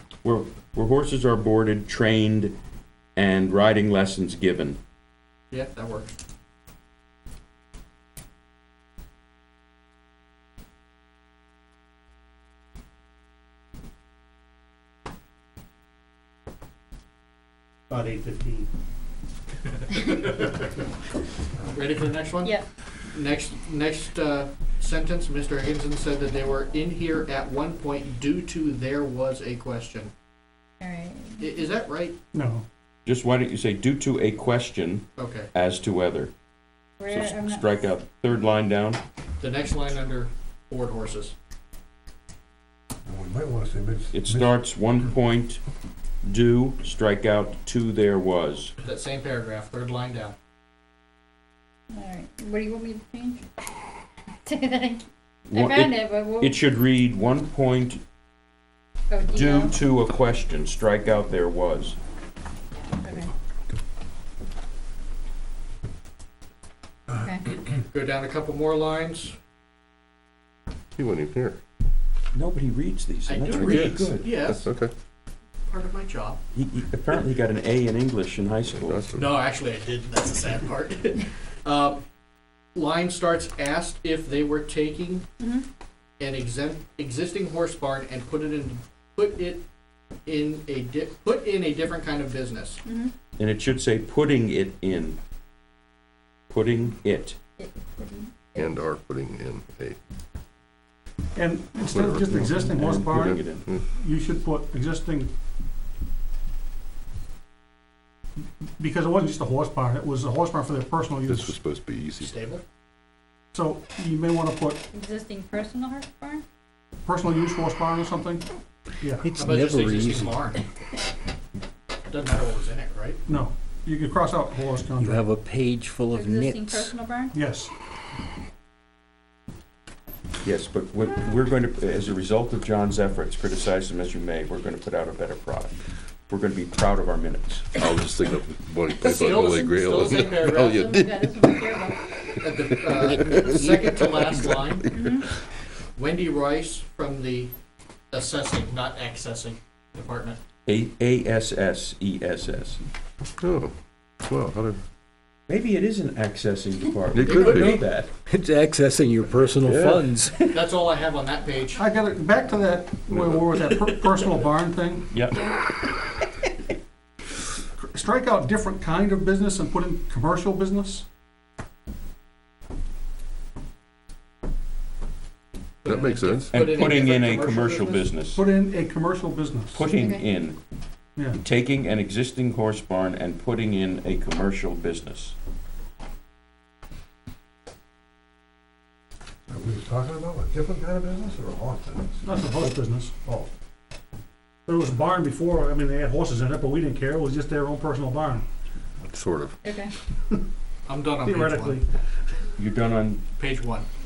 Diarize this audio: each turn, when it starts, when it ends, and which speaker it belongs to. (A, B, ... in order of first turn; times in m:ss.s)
0:00.2-0:02.6 A
0:03.2-0:04.8 A
0:05.5-0:06.2 B
0:20.0-0:20.6 B
0:21.7-0:30.1 B
0:30.8-0:31.6 C
0:31.4-0:32.2 B
0:32.3-0:32.6 D
0:33.1-0:36.3 A
0:35.2-0:35.5 B
0:37.0-0:37.6 C
0:37.1-0:39.0 A
0:39.4-0:41.4 B
0:43.1-0:44.1 E
0:44.1-0:45.6 A
0:46.2-0:48.7 A
0:48.8-0:50.4 B
0:51.9-0:53.4 C
0:54.4-0:56.6 C
0:55.5-0:58.0 A
0:59.1-0:59.7 C
0:59.3-1:02.0 A
1:03.0-1:03.3 C
1:07.2-1:07.5 C
1:07.7-1:09.4 B
1:11.0-1:11.6 F
1:12.3-1:14.5 A
1:13.3-1:14.6 B
1:13.5-1:14.9 F
1:15.7-1:16.4 B
1:16.5-1:19.0 A
1:18.8-1:19.3 F
1:19.1-1:22.0 B
1:22.8-1:25.3 B
1:25.4-1:25.6 C
1:26.2-1:29.6 B
1:30.3-1:32.8 B
1:32.8-1:33.1 C
1:33.4-1:35.2 A
1:36.5-1:37.4 A
1:37.6-1:38.7 C
1:38.6-1:40.0 F
1:41.4-1:43.3 D
1:41.9-1:43.8 F
1:42.8-1:43.7 A
1:44.0-1:45.3 D
1:48.8-1:51.5 D
1:51.2-1:52.4 F
1:52.2-1:52.6 B
1:53.5-1:54.8 D
1:54.9-1:56.4 C
1:57.0-1:58.4 D
1:59.2-2:00.4 G
1:59.4-2:00.6 B
2:02.1-2:03.2 B
2:03.3-2:05.2 D
2:05.0-2:07.0 G
2:06.1-2:07.4 C
2:07.3-2:07.7 D
2:10.4-2:15.8 A
2:16.3-2:17.8 A
2:17.8-2:25.2 F
2:19.0-2:20.8 B
2:20.5-2:22.1 C
2:22.4-2:24.9 B
2:24.9-2:25.3 C
2:26.0-2:27.5 B
2:28.1-2:30.4 B
2:30.7-2:32.8 A
2:33.4-2:34.8 F
2:35.5-2:38.1 A
2:37.2-2:37.8 F
2:37.2-2:37.8 B
2:38.3-2:40.6 G
2:39.6-2:40.1 F
2:40.5-2:41.8 B
2:41.8-2:45.1 D
2:45.1-2:45.4 A
2:45.3-2:45.6 C
2:47.8-2:51.0 D
2:55.8-2:58.0 B
2:55.8-2:56.8 F
2:56.5-2:58.4 A
2:58.4-2:59.8 D
2:59.8-3:00.6 A
2:59.9-3:00.2 C
3:01.4-3:05.4 A
3:09.5-3:12.1 E
3:12.2-3:13.1 D
3:14.7-3:18.4 D
3:19.1-3:19.6 F
3:19.6-3:19.9 C
3:20.9-3:21.8 B
3:21.2-3:21.8 D
3:22.6-3:23.2 A
3:23.4-3:23.9 B